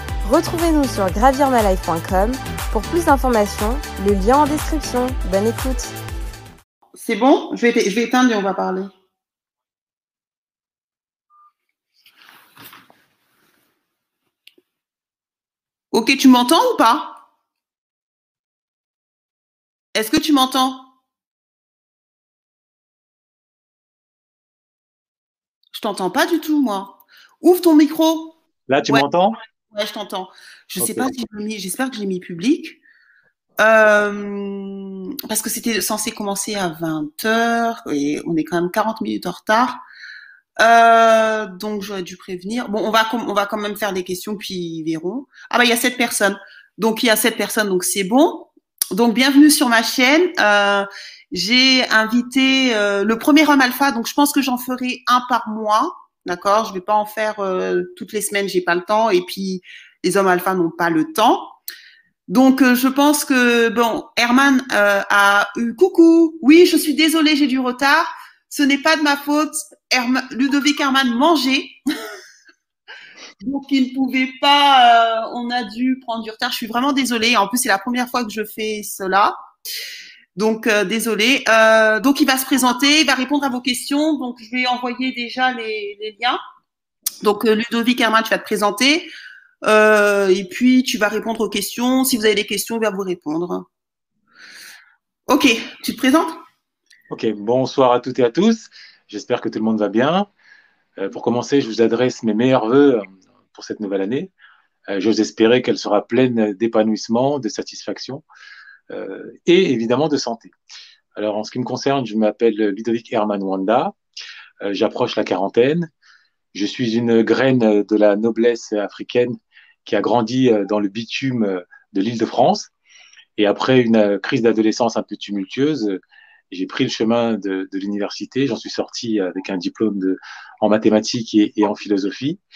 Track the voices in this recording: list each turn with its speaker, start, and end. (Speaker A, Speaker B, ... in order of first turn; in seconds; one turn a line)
Speaker A: 0.2-6.0
Speaker B: 7.0-8.9
Speaker B: 15.9-17.2
Speaker B: 19.9-20.9
Speaker B: 25.7-29.1
Speaker C: 28.7-29.4
Speaker B: 29.7-32.8
Speaker C: 30.8-31.1
Speaker B: 33.6-39.8
Speaker B: 40.6-61.5
Speaker B: 62.3-71.8
Speaker B: 73.4-79.3
Speaker B: 80.4-86.4
Speaker B: 87.2-89.1
Speaker B: 89.6-93.7
Speaker B: 95.3-96.4
Speaker C: 97.1-100.3
Speaker C: 101.0-104.3
Speaker C: 104.9-108.2
Speaker C: 108.9-110.5
Speaker C: 111.2-113.9
Speaker C: 114.6-115.9
Speaker C: 116.5-122.7
Speaker C: 123.4-132.4